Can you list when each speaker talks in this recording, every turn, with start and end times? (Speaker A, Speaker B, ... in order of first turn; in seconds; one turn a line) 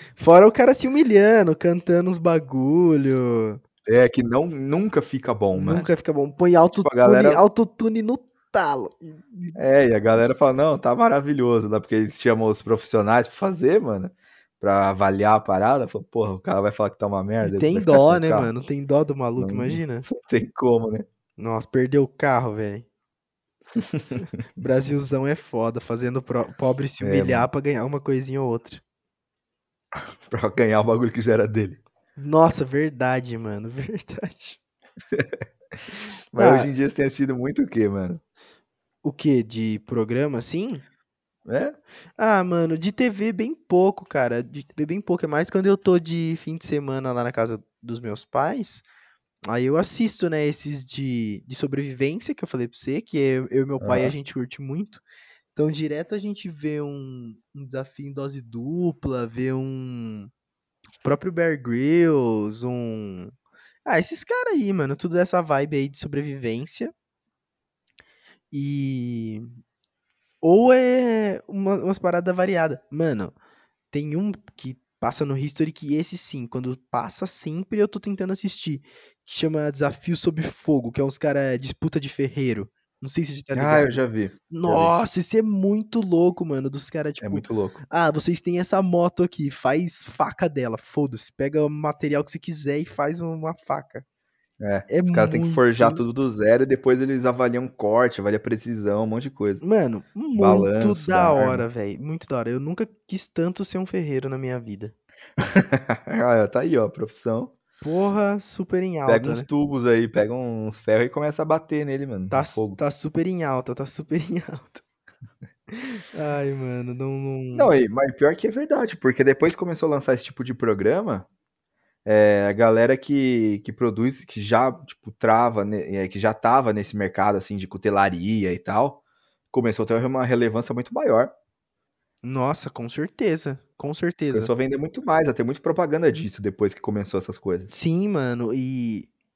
Speaker A: 0.2-3.6
Speaker B: 3.9-5.9
Speaker A: 5.5-9.6
Speaker B: 6.8-7.4
Speaker B: 9.6-18.5
Speaker A: 17.4-20.1
Speaker B: 19.4-21.1
Speaker A: 21.4-22.9
Speaker B: 23.8-24.2
Speaker A: 24.6-28.8
Speaker B: 27.0-27.5
Speaker B: 30.2-31.8
Speaker A: 32.2-34.6
Speaker B: 36.3-38.2
Speaker A: 36.4-36.7
Speaker A: 39.0-40.8
Speaker B: 41.5-41.8
Speaker A: 42.2-48.8
Speaker A: 49.5-55.0
Speaker B: 53.8-54.1
Speaker A: 55.5-60.3
Speaker A: 61.0-63.3
Speaker A: 63.8-66.9
Speaker A: 68.5-69.5
Speaker A: 70.4-73.3
Speaker A: 73.9-94.0
Speaker B: 83.5-84.9
Speaker B: 87.2-87.8
Speaker B: 94.6-99.6
Speaker A: 94.9-96.0
Speaker A: 99.6-104.9
Speaker B: 100.3-101.6
Speaker B: 105.4-107.5
Speaker A: 107.8-109.5
Speaker B: 109.1-112.8
Speaker A: 112.3-114.8
Speaker A: 115.7-117.7
Speaker B: 117.5-121.2
Speaker B: 122.0-129.0
Speaker B: 129.5-131.3
Speaker A: 132.2-134.5
Speaker B: 134.3-137.7
Speaker A: 137.7-139.1